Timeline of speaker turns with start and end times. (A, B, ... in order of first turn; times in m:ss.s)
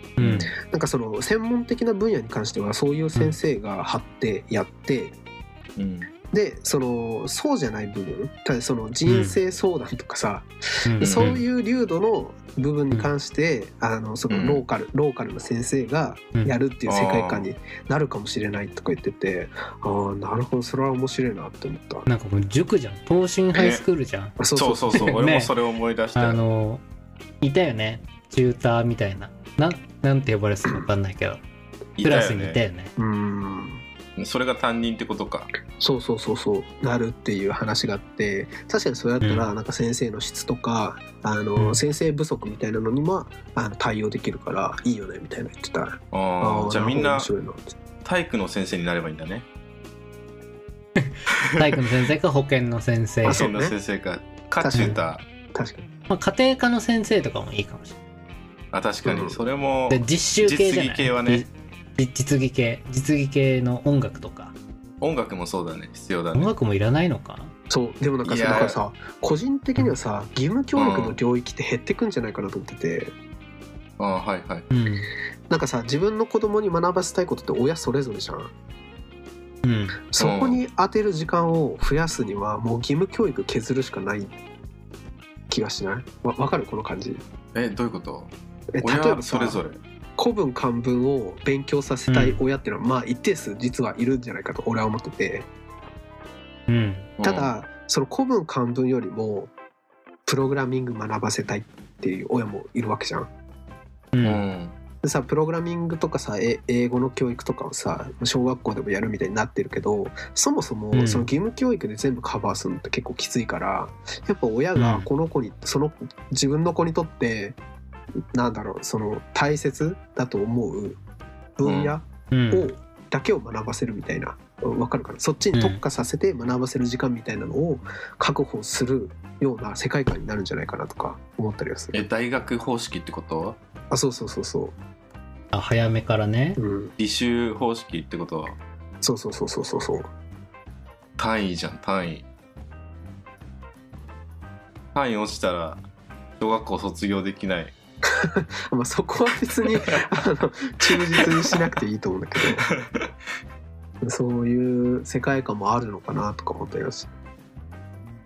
0:00.2-0:00.5 A
0:00.2-0:00.5 B
0:00.6-0:05.2 C
0:05.8-0:06.1 B
0:06.3-0:22.0 C
0:09.0-0:09.4 A
0:10.8-0:11.4 A
0:11.0-0:11.4 B
0:14.3-0:14.6 B
0:16.8-0:17.5 B
0:22.1-0:24.4 A
0:23.5-0:23.8 B
0:24.4-0:25.2 C
0:24.5-0:26.4 B
0:24.9-0:25.5 A
0:26.1-0:26.8 A
0:27.4-0:31.4 A
0:32.0-0:32.6 B
0:32.0-0:32.9 A
0:33.0-0:33.8 C
0:34.2-0:35.5 B
0:35.8-0:47.7 C
0:39.2-0:39.5 A
0:41.6-0:41.8 A
0:46.1-0:47.3 B
0:48.0-0:49.4 B
0:51.0-0:53.5 A
0:51.4-0:51.8 B
0:53.2-0:53.8 C
0:53.3-0:55.2 B
0:54.6-0:55.0 C
0:54.7-0:55.0 A
0:55.5-0:55.9 C
0:56.1-0:58.0 A
0:58.7-1:01.5 B
0:59.0-0:59.4 C
0:59.9-1:04.5 A
1:05.0-1:06.5 B
1:06.3-1:07.5 A
1:07.7-1:13.1 C
1:08.2-1:08.8 B
1:10.8-1:11.2 B
1:14.0-1:14.7 B
1:14.7-1:15.1 A
1:15.5-1:18.5 C
1:19.6-1:20.0 A
1:20.1-1:24.3 C
1:20.2-1:20.6 B
1:25.5-1:27.2 C
1:27.5-1:29.8 B
1:28.7-1:29.6 C
1:30.2-1:35.5 C
1:32.1-1:32.4 A
1:36.7-1:37.1 A
1:37.2-1:37.5 B
1:37.2-1:39.5 C
1:40.2-1:43.3 C
1:44.1-1:44.4 A
1:44.2-1:44.8 B
1:45.0-1:57.6 C
1:50.9-1:51.3 A
1:54.8-1:55.1 A
1:58.3-2:01.0 C
2:01.6-2:12.0 C
2:01.6-2:01.9 B
2:02.3-2:02.7 A
2:05.5-2:05.8 A
2:11.9-2:13.6 B
2:13.9-2:14.7 C
2:15.5-2:16.6 A
2:16.6-2:16.9 C
2:17.0-2:18.6 B
2:19.0-2:20.1 C
2:21.2-2:22.2 B
2:24.9-2:25.8 B
2:26.4-2:27.7 B
2:28.0-2:32.6 C
2:29.6-2:30.0 B
2:30.8-2:31.3 B
2:32.6-2:33.1 B
2:34.0-2:37.1 C